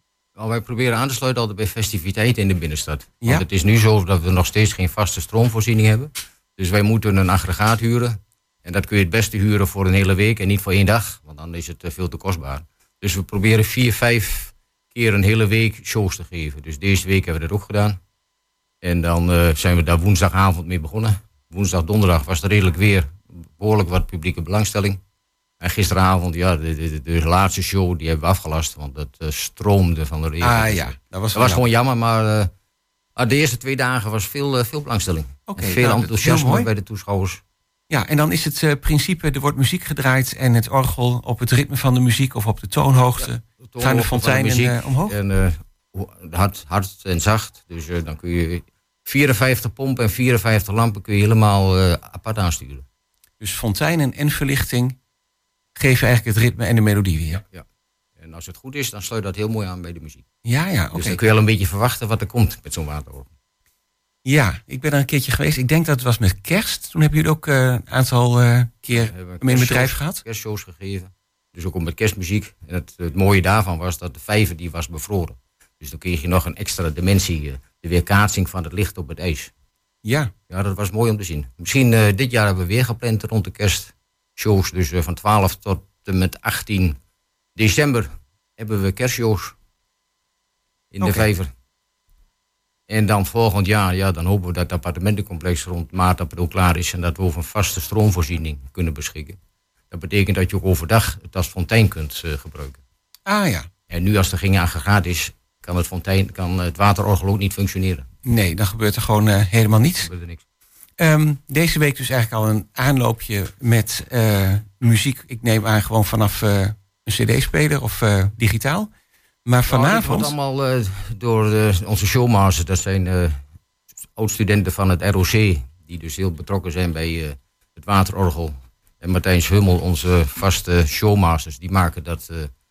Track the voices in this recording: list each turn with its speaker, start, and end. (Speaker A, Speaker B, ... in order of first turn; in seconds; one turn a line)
Speaker A: 0.3-18.0
Speaker A: 18.8-25.0
Speaker A: 25.6-32.5
Speaker B: 30.4-31.7
Speaker A: 33.1-37.4
Speaker B: 35.5-36.7
Speaker B: 37.9-45.2
Speaker A: 43.2-52.8
Speaker B: 53.4-55.0
Speaker B: 55.8-57.4
Speaker A: 57.3-57.6
Speaker A: 58.2-60.2
Speaker B: 60.4-61.2
Speaker A: 60.9-63.3
Speaker B: 64.2-70.2
Speaker A: 68.9-79.5
Speaker B: 80.0-80.3
Speaker A: 80.5-87.0
Speaker A: 87.5-89.5
Speaker A: 90.9-91.5
Speaker B: 91.0-91.3
Speaker A: 92.9-99.4
Speaker A: 99.9-102.8
Speaker B: 103.3-103.7
Speaker A: 103.9-108.1
Speaker B: 108.2-110.1
Speaker A: 110.0-110.4
Speaker B: 111.0-118.9
Speaker B: 119.5-120.3
Speaker A: 119.7-123.4
Speaker A: 124.2-132.5